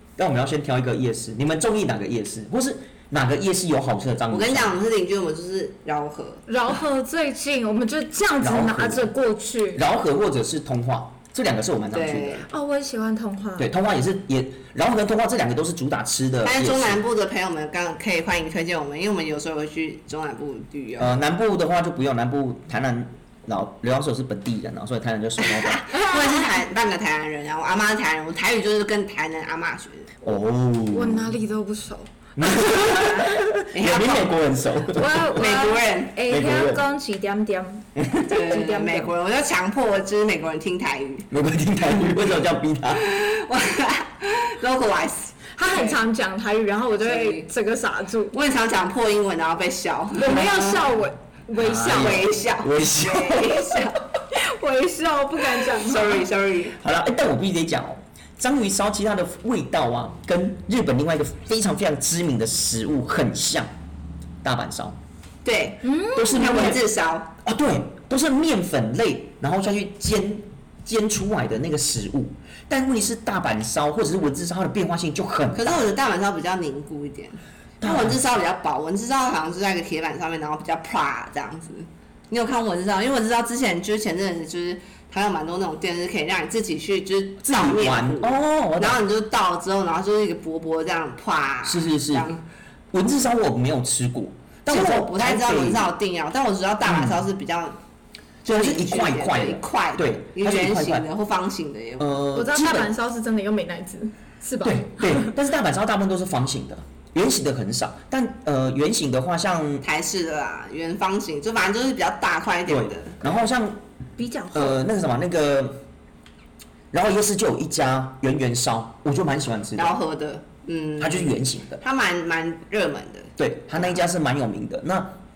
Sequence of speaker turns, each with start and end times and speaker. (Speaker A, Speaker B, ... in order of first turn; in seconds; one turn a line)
Speaker A: 0.2-4.8
Speaker B: 4.3-6.4
Speaker C: 6.5-9.8
Speaker A: 8.4-9.1
Speaker A: 9.7-12.5
Speaker B: 11.9-12.5
Speaker C: 12.5-13.7
Speaker A: 13.6-17.0
Speaker B: 16.4-21.2
Speaker A: 21.0-25.9
Speaker B: 25.4-30.1
Speaker C: 25.9-26.5
Speaker A: 30.2-31.4
Speaker C: 30.9-33.2
Speaker A: 32.4-35.6
Speaker B: 33.7-34.3
Speaker C: 34.9-39.1
Speaker B: 35.3-36.1
Speaker A: 36.2-36.8
Speaker A: 38.0-38.3
Speaker B: 38.3-41.3
Speaker A: 41.3-43.0
Speaker B: 42.9-46.0
Speaker C: 45.6-48.4
Speaker B: 47.0-47.5
Speaker B: 48.3-50.9
Speaker C: 50.1-52.3
Speaker A: 51.6-53.8
Speaker B: 51.9-54.0
Speaker C: 54.3-56.2
Speaker B: 55.7-56.8
Speaker A: 56.8-63.7
Speaker A: 64.4-65.0
Speaker B: 65.4-67.3
Speaker C: 65.8-66.7
Speaker A: 66.1-66.8
Speaker A: 67.4-75.8
Speaker B: 75.5-92.4
Speaker A: 77.8-78.2
Speaker A: 87.4-89.0
Speaker A: 91.6-92.3
Speaker A: 92.9-95.9
Speaker B: 94.7-97.8
Speaker A: 96.8-97.2
Speaker A: 98.4-101.1
Speaker B: 98.5-102.2
Speaker A: 102.0-102.9
Speaker C: 102.3-105.3
Speaker A: 104.6-109.8
Speaker B: 109.8-113.3
Speaker A: 112.7-113.8
Speaker C: 114.2-114.8
Speaker A: 114.5-115.8
Speaker A: 116.9-120.0
Speaker B: 119.8-124.0
Speaker A: 121.0-121.8
Speaker A: 123.4-125.2